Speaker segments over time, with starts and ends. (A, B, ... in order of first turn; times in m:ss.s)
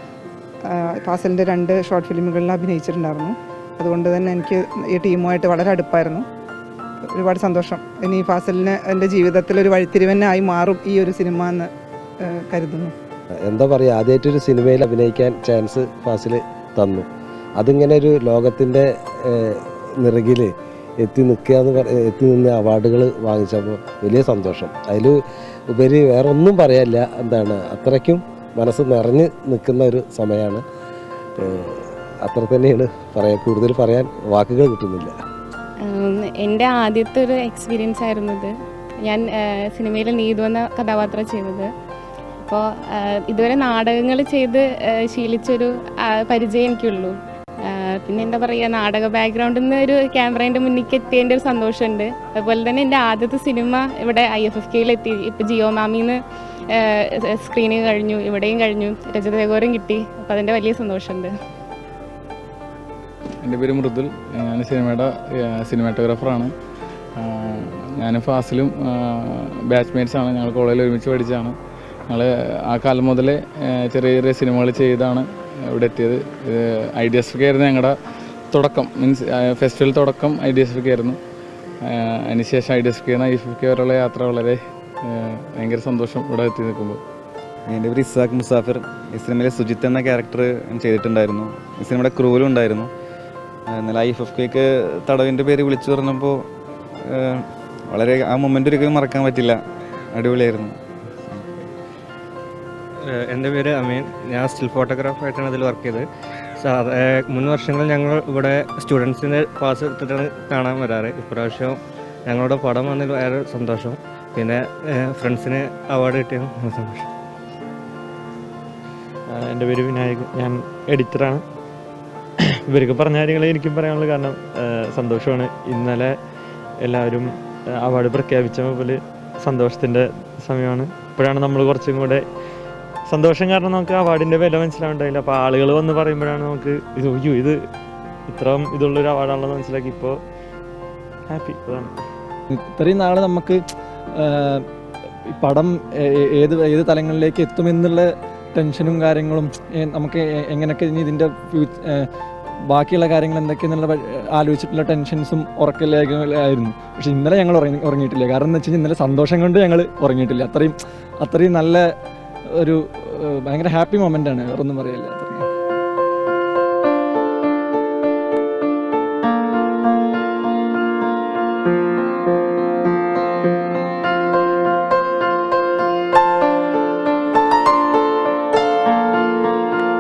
0:00.7-0:06.2 A
0:07.1-0:11.7 A
0:12.2-0:12.9 A
0:13.4-0:30.6 B
0:31.4-0:35.2 B
0:35.8-0:41.7 C
0:42.4-1:01.3 C
1:03.4-1:06.5 D
1:07.2-1:11.6 D
1:12.1-1:17.9 D
1:18.5-1:21.2 D
1:21.8-1:27.0 D
1:27.7-1:32.9 E
1:33.7-1:36.4 E
1:37.0-1:39.6 E
1:40.1-1:40.8 E
1:41.3-1:41.7 E
1:43.0-1:46.0 F
1:46.6-1:57.1 F
1:59.3-2:01.4 G
2:02.7-2:06.1 G
2:06.8-2:12.2 G
2:13.1-2:17.6 G
2:18.3-2:20.2 G
2:21.3-2:21.9 G
2:22.6-2:23.6 H
2:25.3-2:25.7 H
2:26.4-2:31.8 H
2:32.7-2:41.8 H
2:43.3-2:45.4 H